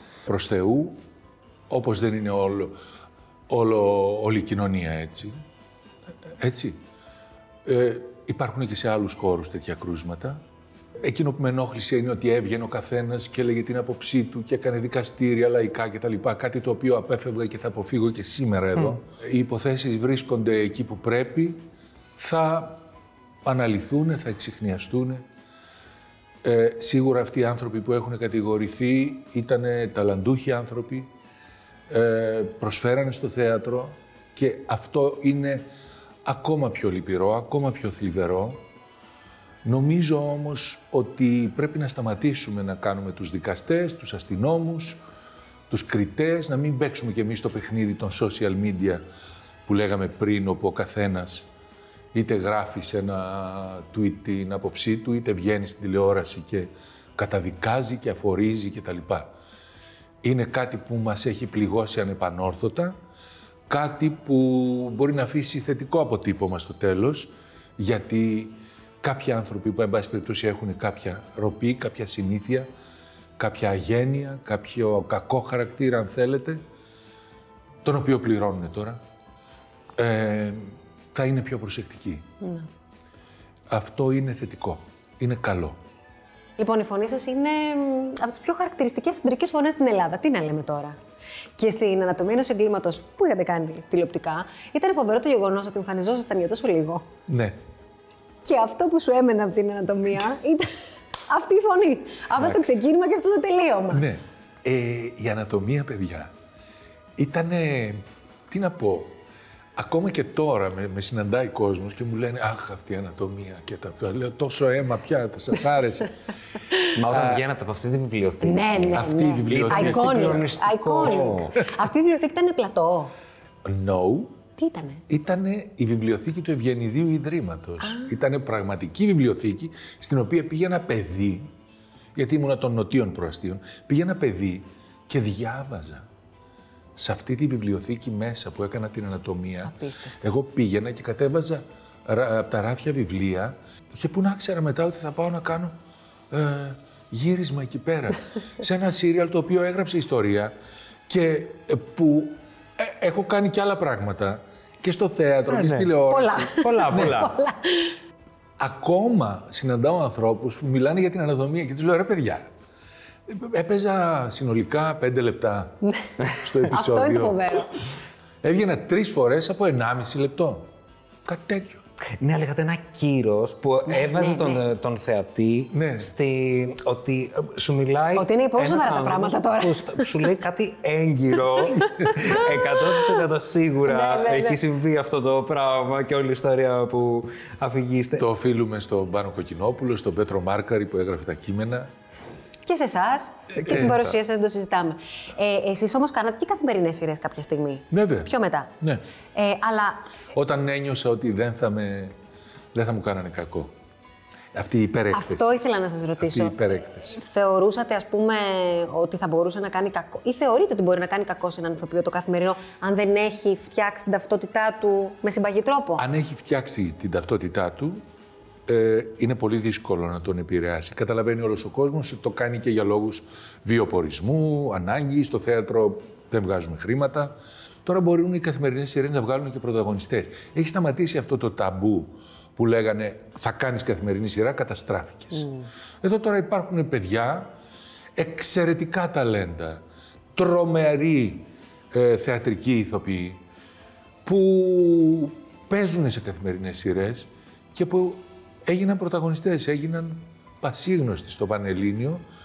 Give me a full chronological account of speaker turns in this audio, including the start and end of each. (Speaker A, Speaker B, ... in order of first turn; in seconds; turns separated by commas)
Speaker A: 0.3-1.0, Speaker A: 1.7-2.8, Speaker A: 3.5-5.4, Speaker A: 6.4-6.8, Speaker A: 7.7-10.4, Speaker A: 11.0-21.7, Speaker A: 22.2-22.8, Speaker A: 23.4-25.2, Speaker A: 26.4-31.1, Speaker A: 31.9-35.7, Speaker A: 36.2-38.6, Speaker A: 39.6-45.0, Speaker A: 45.7-49.0, Speaker A: 49.7-51.5, Speaker A: 52.1-59.3, Speaker A: 60.2-63.0, Speaker A: 63.7-72.7, Speaker A: 73.4-76.6, Speaker A: 77.8-79.0, Speaker A: 80.0-82.2, Speaker B: 82.4-82.7, Speaker A: 83.7-85.8, Speaker B: 86.6-91.0, Speaker B: 91.6-97.1, Speaker A: 97.3-97.6, Speaker B: 98.4-100.7, Speaker B: 101.3-104.1, Speaker A: 102.4-102.7, Speaker A: 103.9-106.3, Speaker A: 107.2-109.2, Speaker A: 109.8-116.1, Speaker C: 117.0-121.6, Speaker A: 117.1-117.4, Speaker B: 118.4-123.1, Speaker A: 118.9-120.5, Speaker A: 123.7-124.4, Speaker B: 124.6-125.0, Speaker A: 125.1-131.5, Speaker B: 127.8-128.1, Speaker A: 132.2-136.1, Speaker A: 137.0-145.8, Speaker B: 139.6-140.2, Speaker A: 146.3-150.6, Speaker A: 151.1-157.3, Speaker C: 155.5-156.0, Speaker B: 156.1-157.9, Speaker C: 156.5-157.4, Speaker A: 158.6-162.5, Speaker A: 163.3-165.8, Speaker B: 165.8-167.7, Speaker A: 166.4-167.5, Speaker A: 168.4-170.7, Speaker A: 171.2-171.8, Speaker C: 172.2-188.3, Speaker B: 173.9-174.6, Speaker A: 175.7-176.1, Speaker B: 178.2-180.1, Speaker B: 182.1-182.4, Speaker B: 183.8-184.6, Speaker A: 188.2-191.9, Speaker B: 192.6-198.7, Speaker A: 193.5-194.2, Speaker A: 197.9-199.0, Speaker B: 199.3-200.1, Speaker A: 200.3-202.1, Speaker A: 202.7-203.7, Speaker A: 204.5-205.6, Speaker B: 205.1-216.0, Speaker A: 206.2-207.2, Speaker A: 216.0-218.0, Speaker A: 218.7-235.5, Speaker B: 235.3-235.7, Speaker A: 236.0-237.6, Speaker A: 238.2-243.4, Speaker A: 244.2-252.2